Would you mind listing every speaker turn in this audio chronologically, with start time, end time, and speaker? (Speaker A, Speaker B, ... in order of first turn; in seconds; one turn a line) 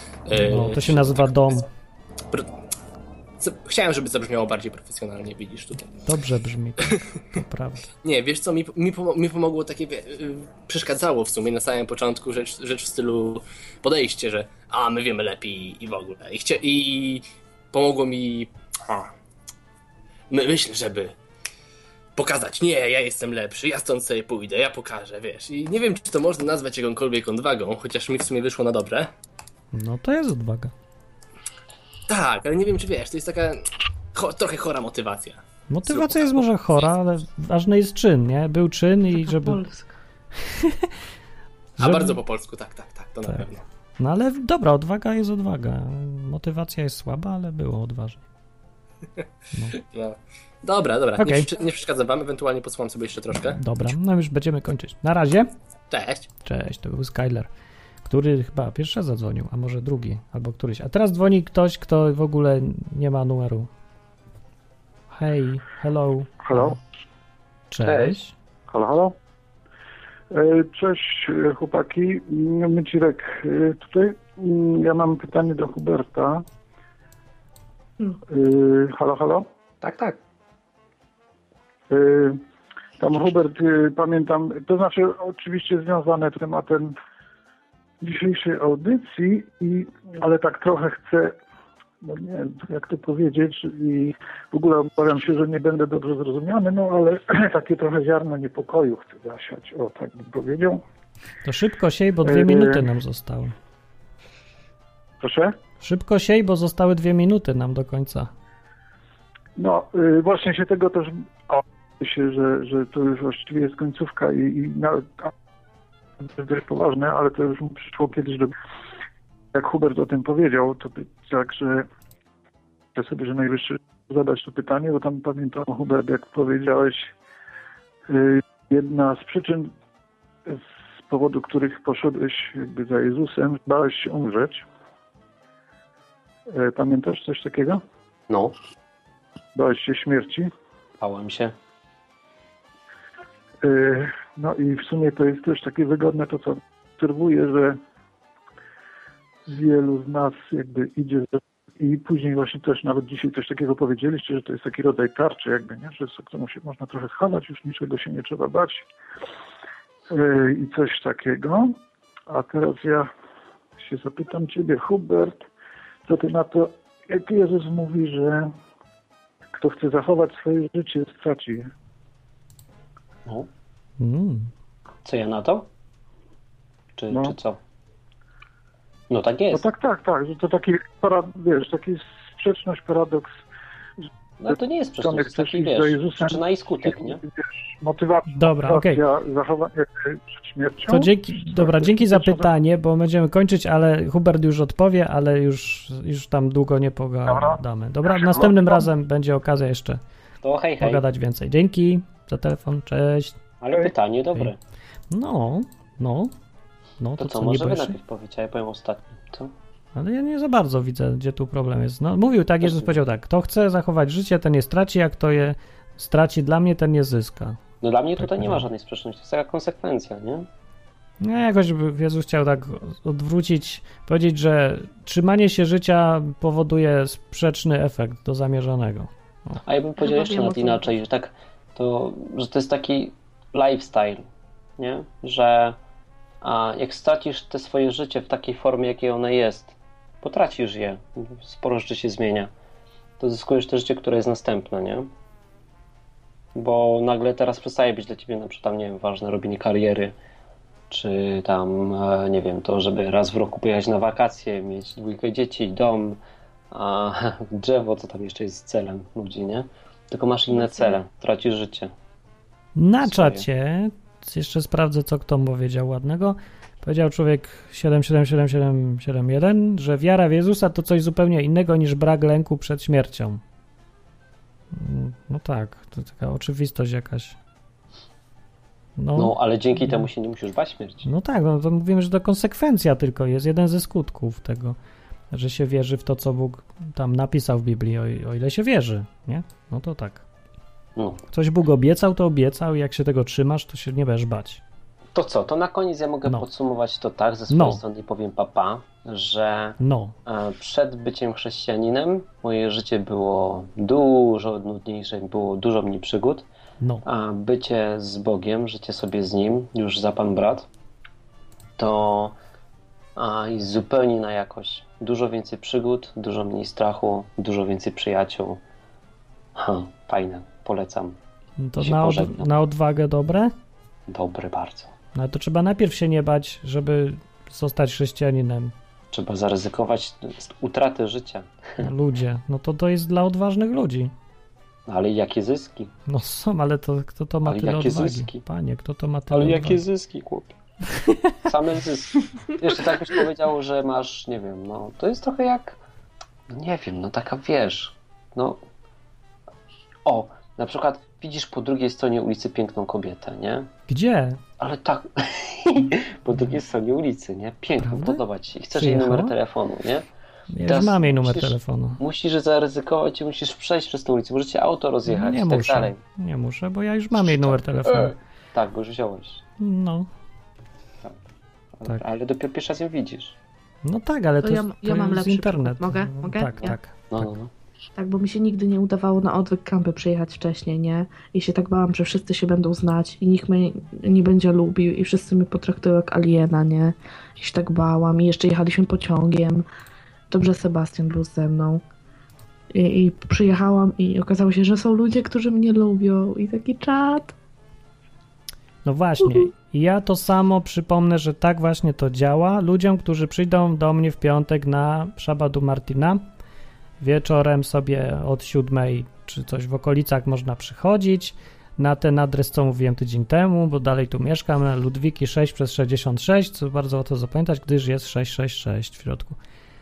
Speaker A: 0.3-1.4
Speaker B: 0.3-1.6
Speaker A: 3.4-5.9
Speaker B: 6.0-7.8
Speaker A: 8.0-19.1
Speaker A: 20.3-21.1
Speaker A: 22.1-29.1
Speaker B: 29.7-30.7
Speaker A: 32.1-33.6
Speaker A: 34.1-36.4
Speaker B: 35.7-39.6
Speaker C: 39.2-39.9
Speaker B: 40.5-40.9
Speaker B: 41.8-42.2
Speaker A: 41.8-43.6
Speaker B: 44.0-48.2
Speaker A: 49.7-53.6
Speaker B: 51.2-51.5
Speaker B: 53.4-55.5
Speaker A: 55.9-56.3
Speaker B: 56.4-57.5
Speaker B: 58.0-63.7
Speaker B: 65.1-66.8
Speaker D: 66.5-66.8
Speaker B: 67.7-68.3
Speaker D: 68.7-69.1
Speaker D: 70.3-76.4
Speaker D: 78.3-79.5
Speaker E: 79.8-80.2
Speaker D: 81.9-82.4
Speaker D: 83.0-86.9
Speaker D: 88.0-91.3
Speaker D: 92.0-100.8
Speaker B: 101.4-103.5
Speaker D: 102.2-102.8
Speaker D: 105.2-105.5
Speaker B: 105.8-108.3
Speaker D: 109.6-115.3
Speaker D: 116.2-118.5
Speaker D: 119.5-121.9
Speaker D: 122.9-127.1
Speaker D: 128.1-129.7
Speaker D: 130.4-134.6
Speaker D: 136.5-137.8
Speaker E: 138.3-138.5
Speaker D: 139.5-140.5
Speaker E: 141.0-141.5
Speaker D: 143.6-147.8
Speaker D: 149.5-158.8
Speaker D: 160.1-161.8
Speaker D: 162.3-163.1
Speaker D: 163.8-165.4
Speaker D: 166.1-168.5
Speaker D: 169.5-171.7
Speaker B: 174.0-174.5
Speaker E: 175.0-175.7
Speaker E: 177.0-177.6
Speaker D: 177.1-177.3
Speaker E: 179.1-179.6
Speaker D: 179.5-183.3
Speaker E: 184.4-187.2
Speaker D: 184.5-192.5
Speaker B: 188.3-189.0
Speaker B: 190.9-200.0
Speaker D: 197.3-198.8
Speaker E: 200.4-201.0
Speaker B: 200.8-203.4
Speaker E: 203.6-204.6
Speaker B: 205.1-206.3
Speaker B: 207.0-207.9
Speaker E: 207.2-209.5
Speaker B: 209.9-217.6
Speaker E: 212.6-212.9
Speaker E: 217.8-220.5
Speaker B: 218.2-218.7
Speaker B: 221.2-229.6
Speaker E: 229.6-234.2
Speaker C: 230.0-230.9
Speaker E: 234.8-235.8
Speaker E: 236.4-242.5
Speaker E: 243.2-245.1
Speaker E: 246.6-250.1
Speaker E: 250.9-256.2
Speaker E: 256.7-261.9
Speaker C: 260.5-261.0
Speaker B: 262.8-273.4
Speaker E: 263.0-263.4
Speaker B: 274.7-277.4
Speaker B: 279.0-280.1
Speaker E: 279.1-281.1
Speaker B: 281.0-284.8
Speaker B: 285.3-290.2
Speaker E: 290.9-291.2
Speaker B: 291.3-294.6
Speaker E: 295.1-306.4
Speaker B: 297.5-297.8
Speaker B: 299.8-300.1
Speaker E: 307.0-310.7
Speaker E: 311.8-312.4
Speaker E: 313.1-318.6
Speaker E: 319.5-321.1
Speaker B: 321.6-323.5
Speaker E: 321.8-322.5
Speaker E: 324.1-324.9
Speaker B: 325.1-328.7
Speaker E: 329.1-331.5
Speaker B: 331.8-334.1
Speaker E: 334.9-335.9
Speaker B: 336.1-339.8
Speaker E: 337.4-338.4
Speaker E: 339.3-340.5
Speaker B: 341.0-341.3
Speaker E: 341.4-345.8
Speaker E: 346.5-348.6
Speaker E: 350.1-353.7
Speaker B: 353.9-354.4
Speaker E: 354.6-360.0
Speaker B: 357.8-358.2
Speaker B: 358.7-359.3
Speaker B: 360.5-362.0
Speaker E: 360.6-366.0
Speaker B: 365.1-368.1
Speaker E: 367.2-369.4
Speaker B: 369.6-370.1
Speaker E: 371.8-373.3
Speaker B: 373.8-377.3
Speaker C: 374.4-376.8
Speaker E: 377.1-377.5
Speaker C: 378.0-389.6
Speaker C: 390.3-391.8
Speaker C: 392.7-397.3
Speaker B: 398.8-406.2
Speaker B: 407.0-419.4